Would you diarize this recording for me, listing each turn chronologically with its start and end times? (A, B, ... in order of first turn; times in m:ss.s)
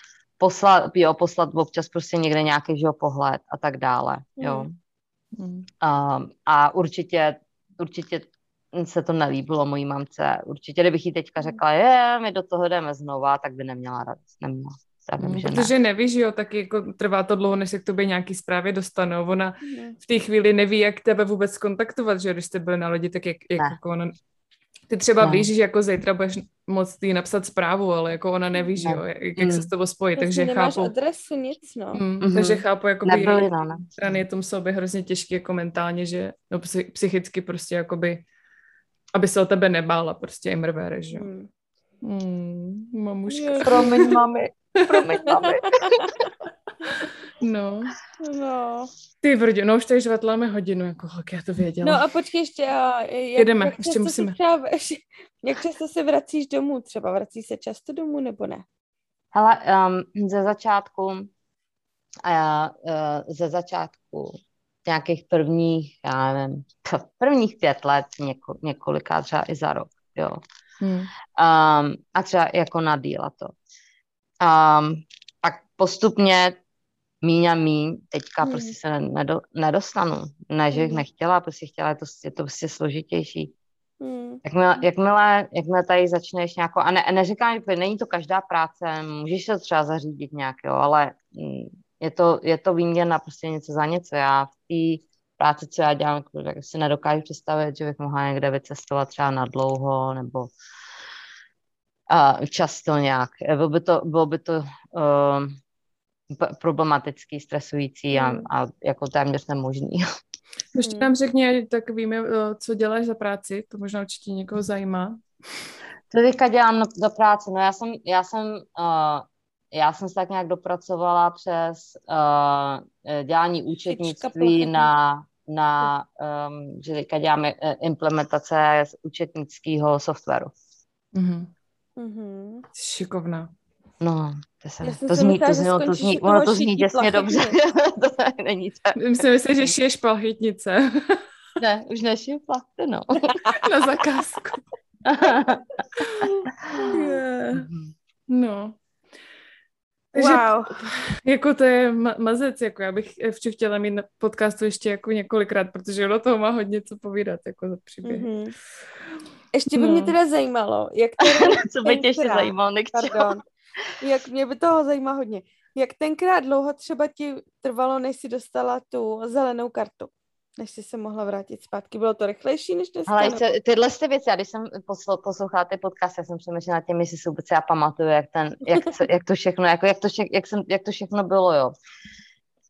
0:00.4-0:04.7 A
0:04.4-0:04.7 B
0:05.4-0:05.7 C
0:05.8-0:15.7 A
0:15.2-0:24.1 C
0:19.6-0:20.0 B
0:24.9-0:30.9 C
0:25.2-0:25.5 A
0:28.8-0:29.7 A
0:30.2-0:32.0 B
0:31.9-0:38.2 C
0:32.2-0:33.8 A
0:39.1-0:41.3 C
0:41.1-0:41.5 B
0:42.0-0:44.2 C
0:43.3-0:44.1 B
0:43.6-0:46.1 A
0:45.2-0:46.1 B
0:47.4-0:47.9 C
0:48.2-0:48.9 B
0:49.2-0:52.0 C
0:51.8-0:58.6 B
0:53.4-0:54.4 C
0:59.3-1:01.3 A
1:02.2-1:10.4 A
1:10.8-1:11.1 C
1:11.4-1:13.5 A
1:14.4-1:16.6 A
1:17.2-1:23.5 A
1:18.4-1:18.8 B
1:20.7-1:21.0 B
1:24.0-1:24.4 B
1:24.4-1:40.5 A
1:42.1-1:45.6 A
1:46.3-1:50.0 A
1:48.1-1:48.5 B
1:50.7-1:55.2 C
1:50.8-1:51.1 B
1:56.1-2:10.5 A
2:03.9-2:04.9 B
2:11.1-2:11.5 C
2:12.0-2:12.6 B
2:12.7-2:13.5 C
2:14.0-2:19.0 A
2:14.8-2:17.6 B
2:19.0-2:21.2 C
2:21.6-2:23.3 A
2:23.6-2:24.6 C
2:25.0-2:25.6 A
2:26.9-2:27.6 B
2:27.5-2:27.9 A
2:28.3-2:28.8 C
2:30.1-2:30.7 B
2:30.1-2:38.3 C
2:38.0-2:38.5 B
2:39.5-2:43.4 B
2:39.7-2:40.1 C
2:41.2-2:43.3 A
2:44.0-2:53.4 B
2:53.1-3:01.7 A